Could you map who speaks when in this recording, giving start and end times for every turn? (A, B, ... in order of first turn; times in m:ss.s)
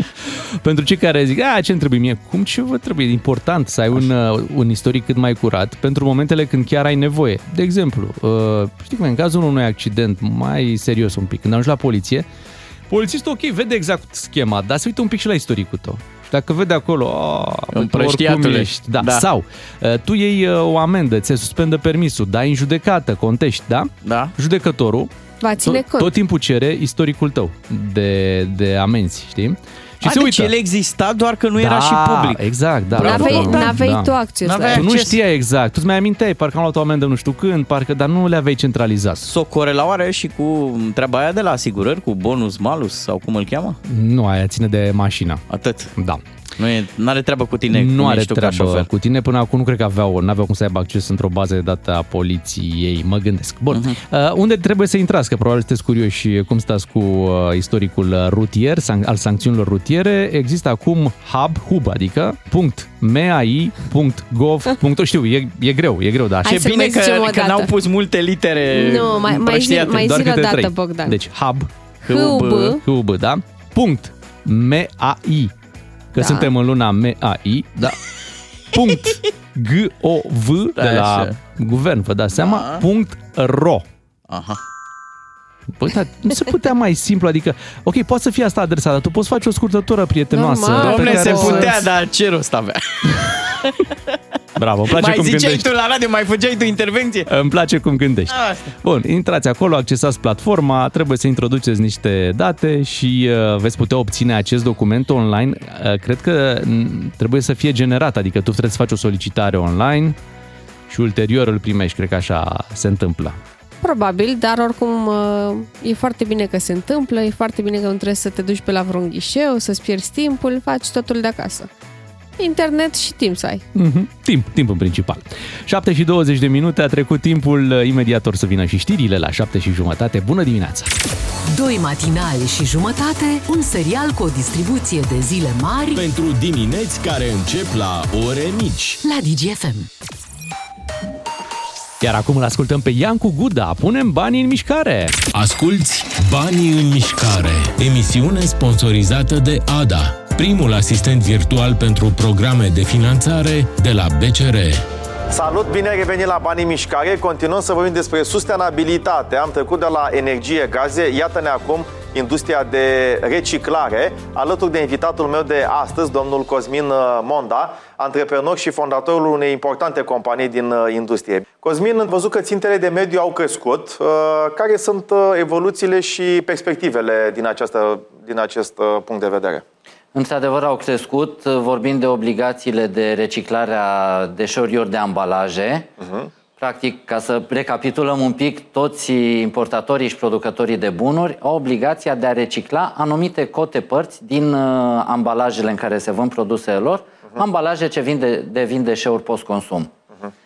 0:00.3-0:12.2 A
0:12.9-0:25.1 A
0:17.7-0:19.3 B
0:24.0-0:24.3 B
0:25.4-0:26.1 C
0:25.7-0:30.5 A
0:30.0-0:33.8 B
0:31.6-0:34.1 A
0:33.0-0:34.9 C
0:34.4-0:35.2 B
0:34.7-0:39.2 A
0:39.2-0:43.8 B
0:43.8-0:45.4 A
0:45.5-0:45.9 B
0:46.0-0:46.2 A
0:46.6-0:48.9 B
0:47.7-1:06.6 A
0:53.7-0:54.0 B
1:06.4-1:07.7 C
1:06.4-1:10.2 B
1:08.7-1:11.2 C
1:09.8-1:11.7 A
1:12.0-1:12.8 B
1:12.1-1:12.8 C
1:12.6-1:15.5 A
1:16.1-1:18.0 A
1:16.2-1:16.5 C
1:18.7-1:23.8 A
1:20.8-1:21.4 B
1:22.4-1:22.8 B
1:24.3-1:24.6 B
1:25.7-1:31.8 A
1:30.3-1:31.8 C
1:30.7-1:33.8 B
1:34.6-1:35.7 A
1:34.9-1:37.3 B
1:37.3-1:50.2 A
1:38.3-1:38.7 B
1:50.9-1:53.4 A
1:53.8-2:01.7 C
2:02.4-2:03.6 C
2:03.7-2:10.9 A
2:11.5-2:16.0 D
2:15.9-2:19.0 E
2:19.0-2:19.9 D
2:22.0-2:25.2 A
2:25.3-2:34.8 E
2:35.3-2:59.6 F
3:00.1-3:05.9 G
3:06.0-3:06.3 F
3:06.6-3:19.9 G